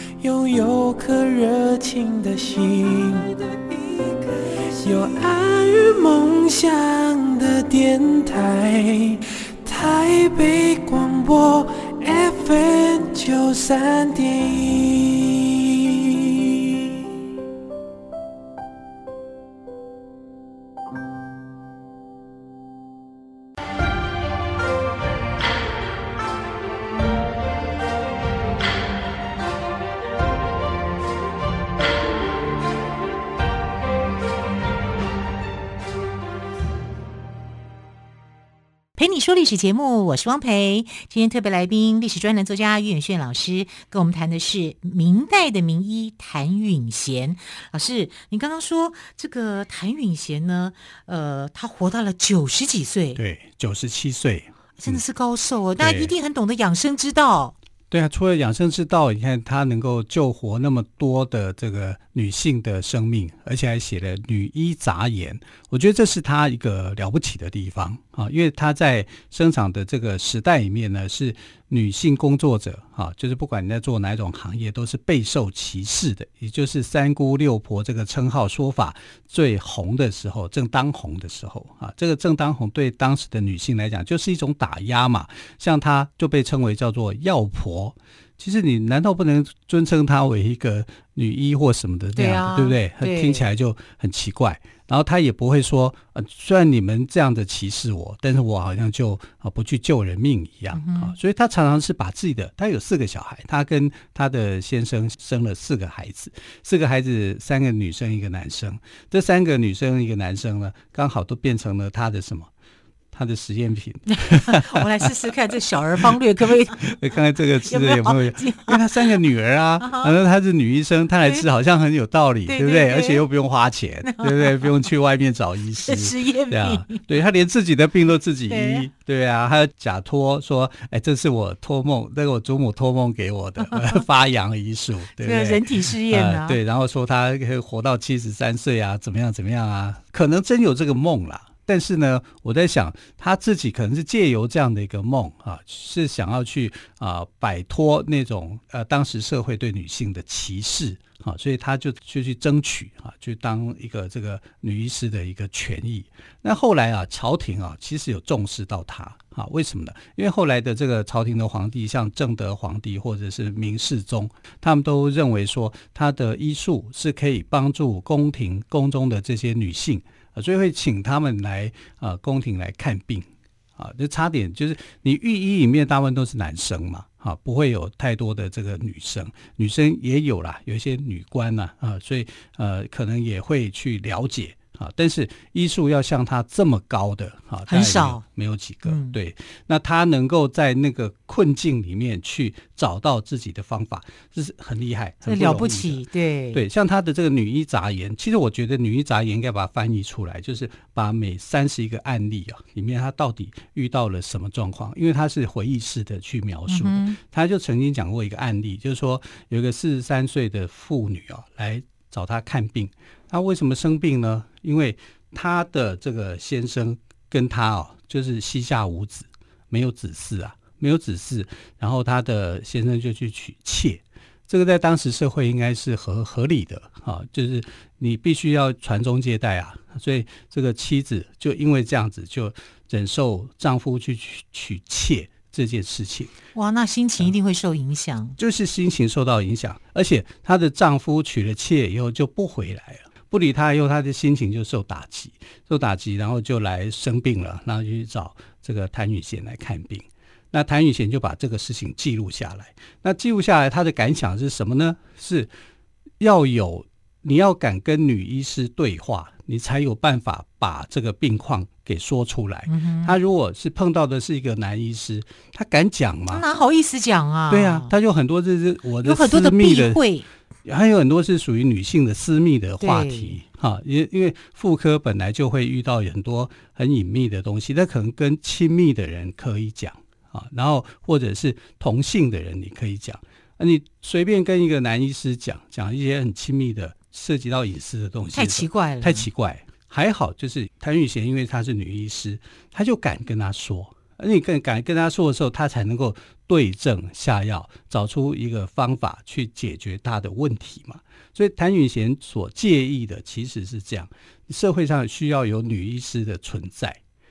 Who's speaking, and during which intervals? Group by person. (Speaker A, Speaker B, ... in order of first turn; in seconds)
Speaker A: 0.2-17.0
Speaker B: 39.0-53.2, 54.8-57.5, 92.2-93.5, 100.7-101.2, 114.1-116.9, 117.7-119.2, 119.8-120.1, 122.5-123.2, 124.0-124.7, 125.8-127.0, 128.5-128.9, 135.2-136.6, 187.7-188.2, 188.8-189.2, 195.2-196.6, 206.7-207.2, 236.6-238.4, 262.7-263.2, 266.3-267.9, 269.0-270.3, 272.8-273.4, 288.3-289.3
Speaker C: 53.2-55.0, 55.8-56.1, 57.9-112.5, 113.1-116.1, 116.8-236.3, 238.4-255.5, 256.2-266.4, 267.5-270.0, 270.6-307.0